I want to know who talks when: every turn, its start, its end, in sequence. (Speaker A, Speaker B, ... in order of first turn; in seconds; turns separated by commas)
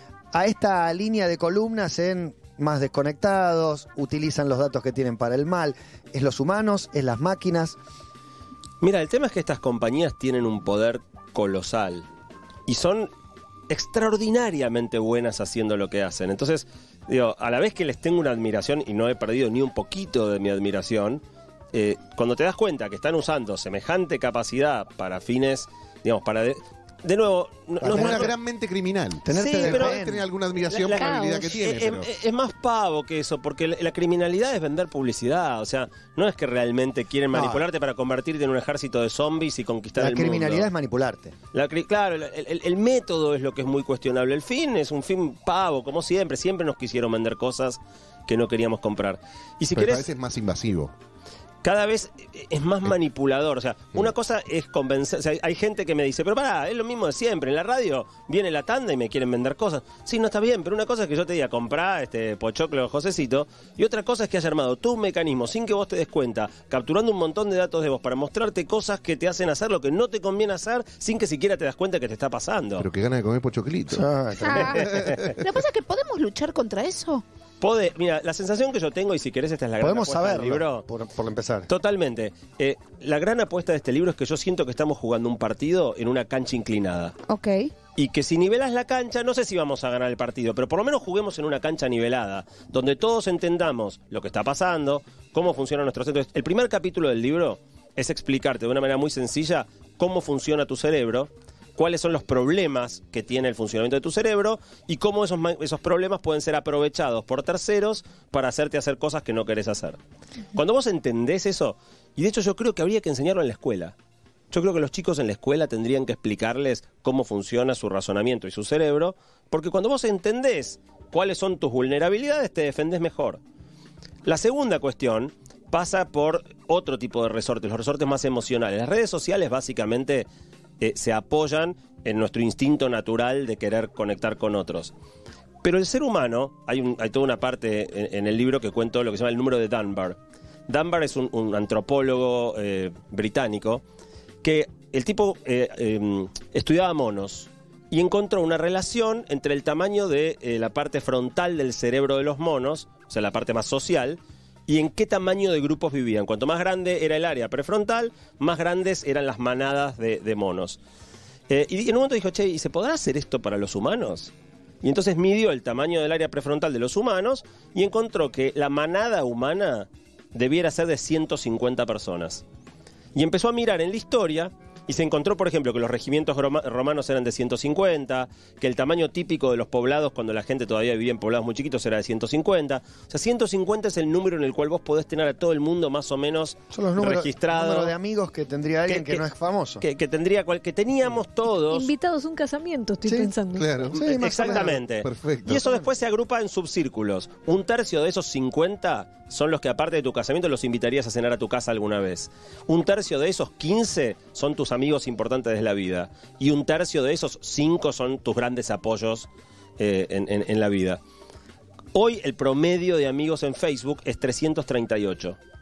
Speaker A: 0.3-7.8, Speaker B: 8.8-12.1, Speaker B: 12.7-13.1, Speaker B: 13.7-21.2, Speaker B: 21.7-28.3, Speaker A: 27.8-28.3, Speaker C: 27.8-32.1, Speaker A: 29.2-30.3, Speaker B: 29.3-30.0, Speaker B: 30.7-40.7, Speaker D: 30.9-31.5, Speaker A: 37.3-37.6, Speaker A: 40.0-41.3, Speaker B: 41.5-50.1, Speaker C: 49.7-50.9, Speaker B: 51.6-72.9, Speaker C: 72.8-74.1, Speaker A: 73.9-75.1, Speaker E: 74.4-77.2, Speaker B: 74.6-75.3, Speaker C: 74.8-75.4, Speaker B: 77.6-80.8, Speaker A: 79.8-81.7, Speaker B: 81.7-87.2, Speaker E: 87.3-87.7, Speaker B: 88.0-110.0, Speaker B: 110.5-114.0, Speaker B: 114.5-123.4, Speaker B: 124.2-130.3, Speaker B: 130.8-134.9, Speaker B: 135.6-143.8, Speaker B: 144.4-160.8, Speaker B: 161.5-172.4, Speaker B: 173.1-187.9, Speaker A: 186.7-189.8, Speaker B: 188.8-189.2, Speaker B: 189.8-191.9, Speaker D: 191.7-193.7, Speaker A: 193.0-193.3, Speaker C: 193.5-195.6, Speaker A: 193.9-194.8, Speaker B: 193.9-211.0, Speaker B: 211.9-215.4